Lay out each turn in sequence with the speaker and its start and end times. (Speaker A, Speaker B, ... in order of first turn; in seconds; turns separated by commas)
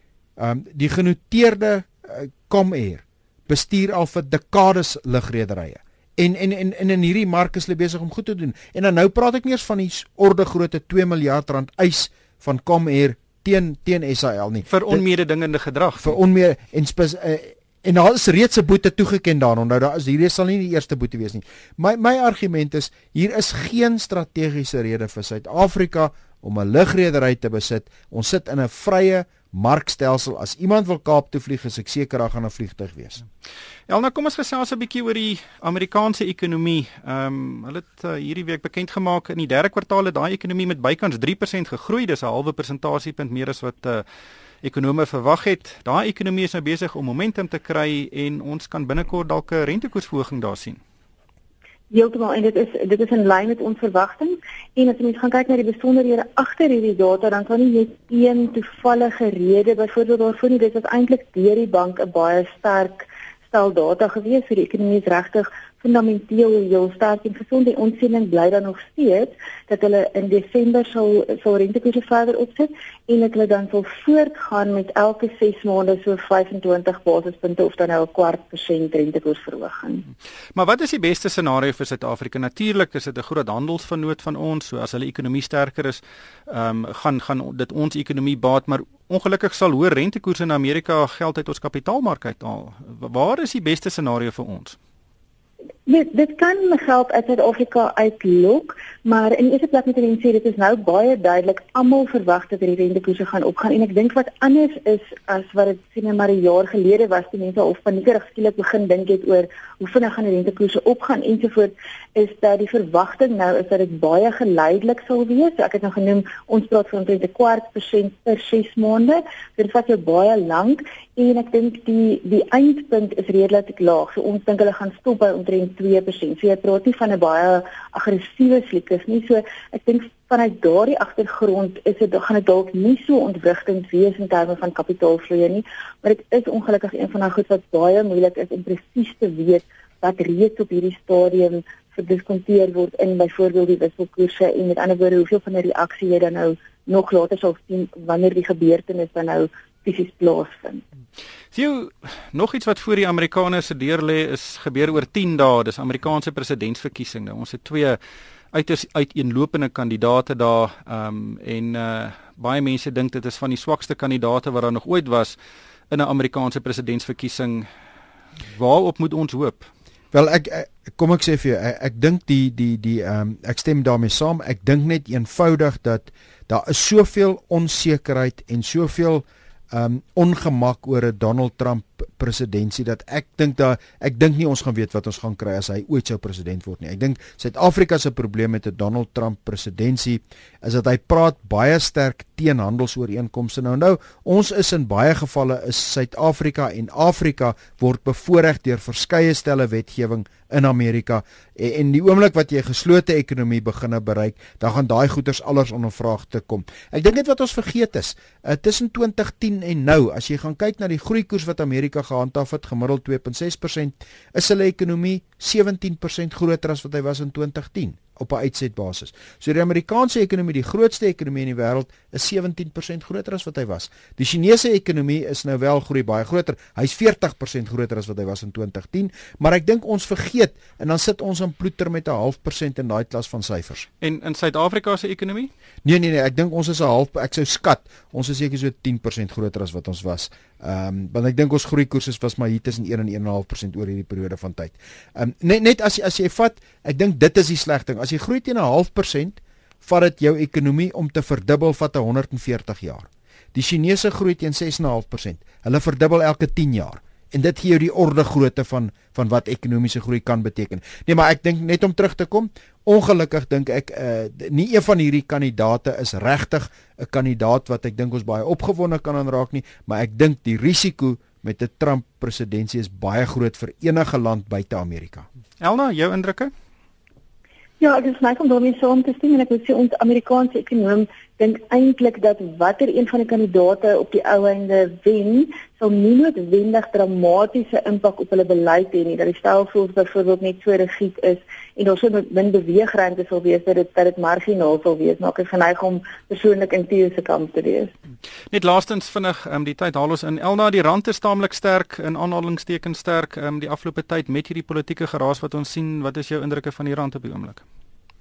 Speaker A: 0.4-15.0, Speaker B: 14.7-16.1, Speaker A: 16.0-33.2, Speaker B: 33.9-44.0, Speaker B: 44.6-50.8, Speaker C: 51.9-80.0, Speaker B: 80.5-94.8, Speaker C: 95.9-150.8, Speaker B: 151.5-158.0, Speaker B: 158.5-165.4, Speaker B: 165.9-167.7, Speaker B: 168.5-169.7, Speaker A: 170.1-233.9, Speaker B: 234.0-235.5, Speaker A: 235.8-275.2, Speaker B: 275.6-276.5, Speaker C: 277.8-297.9, Speaker B: 298.5-307.6